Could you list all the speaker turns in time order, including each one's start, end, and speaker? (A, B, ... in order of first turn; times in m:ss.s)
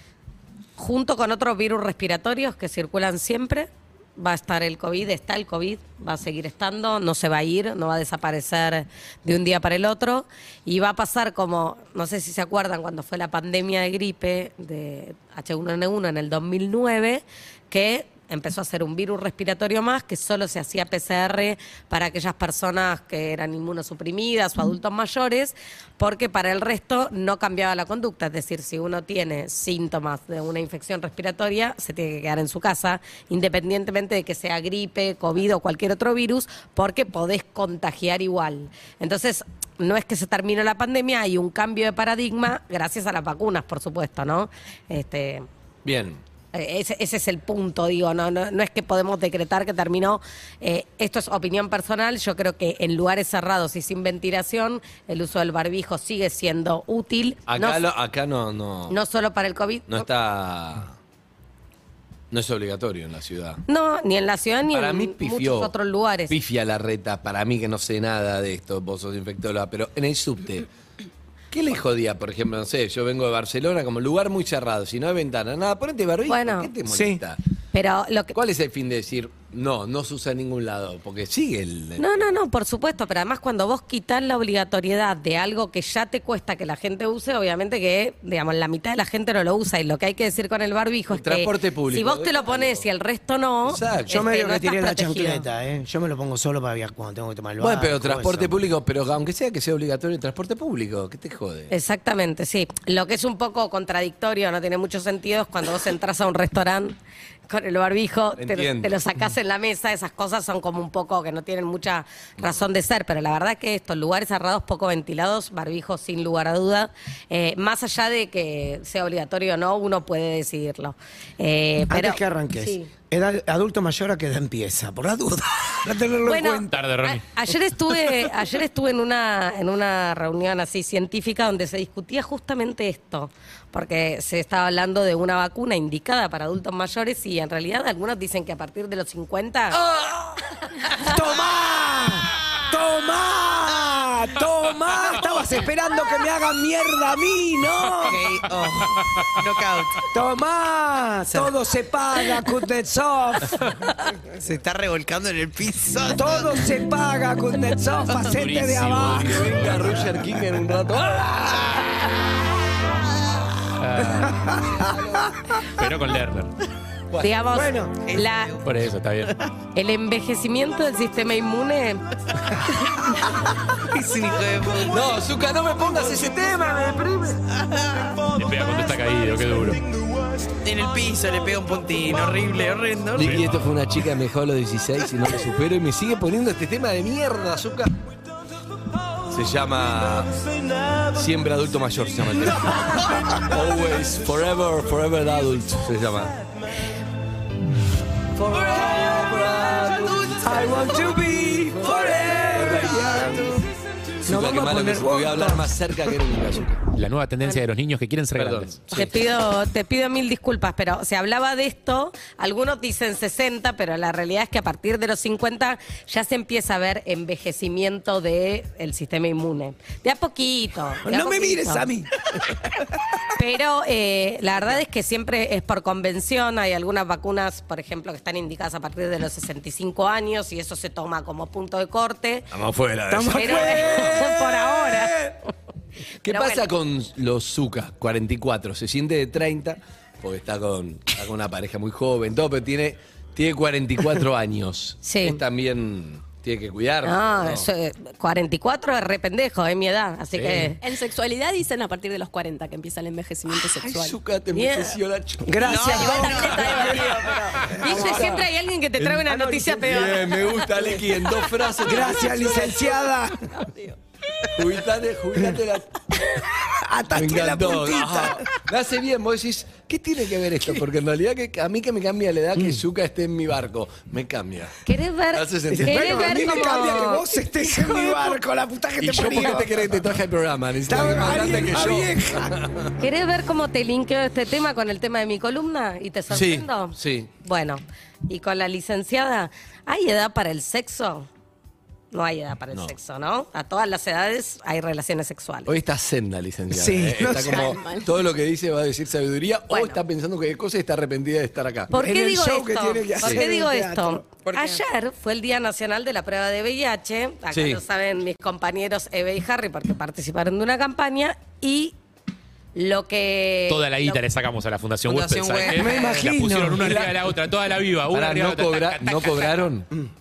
0:00.8-0:45.4 A
0:45.8-0:46.2 B
0:46.5-0:57.8 A
0:57.5-0:59.0 B
0:58.9-1:00.1 A
0:59.9-1:01.0 B
1:02.3-1:03.6 B
1:03.7-1:06.3 A
1:04.7-1:05.7 B
1:06.3-1:10.7 B
1:11.5-1:17.4 B
1:16.2-1:16.7 A
1:16.9-1:17.2 C
1:17.7-1:18.3 A
1:18.3-1:22.0 B
1:22.0-1:35.5 A
1:31.1-1:32.8 B
1:33.6-1:34.2 B
1:34.1-1:38.6 C
1:37.6-1:41.7 B
1:41.7-1:47.0 A
1:47.5-2:02.9 A
1:48.4-1:48.9 B
2:01.9-2:06.8 C
2:06.2-2:19.8 A
2:06.7-2:07.2 D
2:21.0-2:28.2 C
2:28.1-2:28.7 E
2:28.3-2:28.9 D
2:29.4-2:29.9 E
2:30.1-2:33.6 C
2:34.4-2:36.4 E
2:36.1-2:40.2 C
2:38.2-2:40.1 D
2:39.1-2:41.8 B
2:41.4-2:42.2 C
2:43.8-2:44.6 D
2:44.0-2:45.6 C
2:44.8-2:45.2 B
2:45.7-2:46.5 D
2:47.2-2:48.6 A
2:47.5-2:48.0 C
2:48.6-2:49.3 D
2:49.7-2:52.0 A
2:53.9-2:55.1 E
2:54.9-2:57.4 B
2:55.9-2:56.7 E
2:58.3-2:59.8 D
3:00.6-3:03.2 E
3:03.1-3:07.9 B
3:03.2-3:03.6 D
3:09.3-3:10.3 B
3:11.1-3:16.4 B
3:18.3-3:23.6 B
3:20.4-3:23.6 C
3:24.2-3:25.7 C
3:24.2-3:26.8 B
3:26.9-3:29.1 D
3:28.4-3:29.1 B
3:28.9-3:41.9 A
3:41.0-3:43.0 C
3:43.3-3:52.5 A
3:52.5-3:54.5 B
3:53.1-3:55.4 C
3:53.3-3:55.1 A
3:56.2-4:07.7 B
3:56.2-3:56.6 A
4:05.0-4:05.4 A
4:07.0-4:10.8 A
4:10.3-4:10.7 B
4:10.8-4:14.2 F
4:13.5-4:17.4 B
4:14.5-4:15.0 A
4:15.4-4:18.4 C
4:15.6-4:17.8 F
4:15.8-4:16.9 E
4:17.8-4:20.4 A
4:18.0-4:18.4 B
4:19.0-4:19.2 B
4:19.2-4:20.4 C
4:19.8-4:22.7 B
4:21.8-4:23.0 F
4:21.8-4:23.5 C
4:23.5-4:24.0 F
4:24.6-4:25.9 B
4:25.3-4:25.6 C
4:26.3-4:28.6 C
4:27.1-4:34.7 B
4:34.8-4:37.2 A
4:35.3-4:36.8 B
4:35.7-4:40.0 C
4:37.8-4:38.3 B
4:39.0-4:42.9 B
4:40.8-4:42.6 C
4:43.0-4:51.3 A
4:46.3-4:47.3 B
4:52.1-4:55.7 A
4:55.7-5:01.9 B
4:56.7-4:57.7 C
4:57.5-4:58.1 F
4:59.7-5:00.0 A
5:01.9-5:12.0 A
5:01.9-5:04.2 C
5:04.4-5:04.8 E
5:07.5-5:07.8 B
5:12.7-5:14.2 A
5:13.7-5:19.7 D
5:15.1-5:16.2 E
5:15.7-5:17.0 C
5:16.8-5:17.3 B
5:18.1-5:19.9 B